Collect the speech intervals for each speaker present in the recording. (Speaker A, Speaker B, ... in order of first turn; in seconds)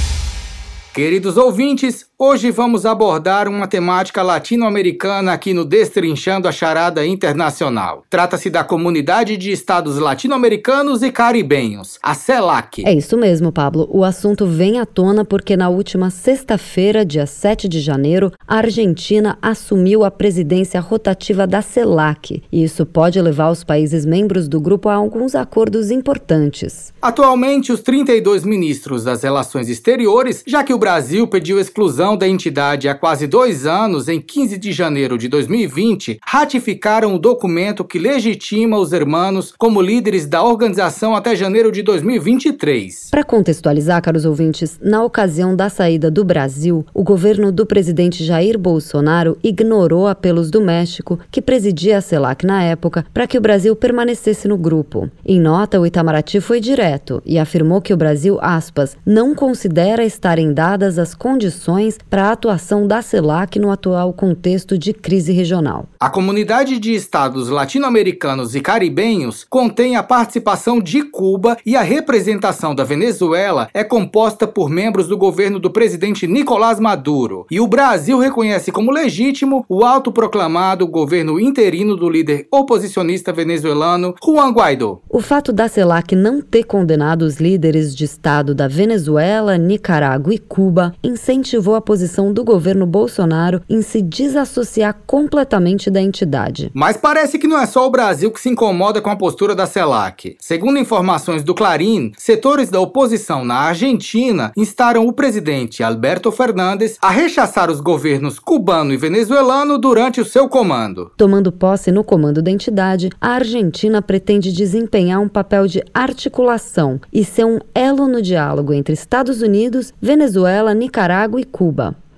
Speaker A: 0.9-12.9, 27.0-43.1, 66.0-85.0, 96.7-111.1
Speaker B: 12.8-26.9, 43.1-65.9, 85.1-96.7, 111.2-122.0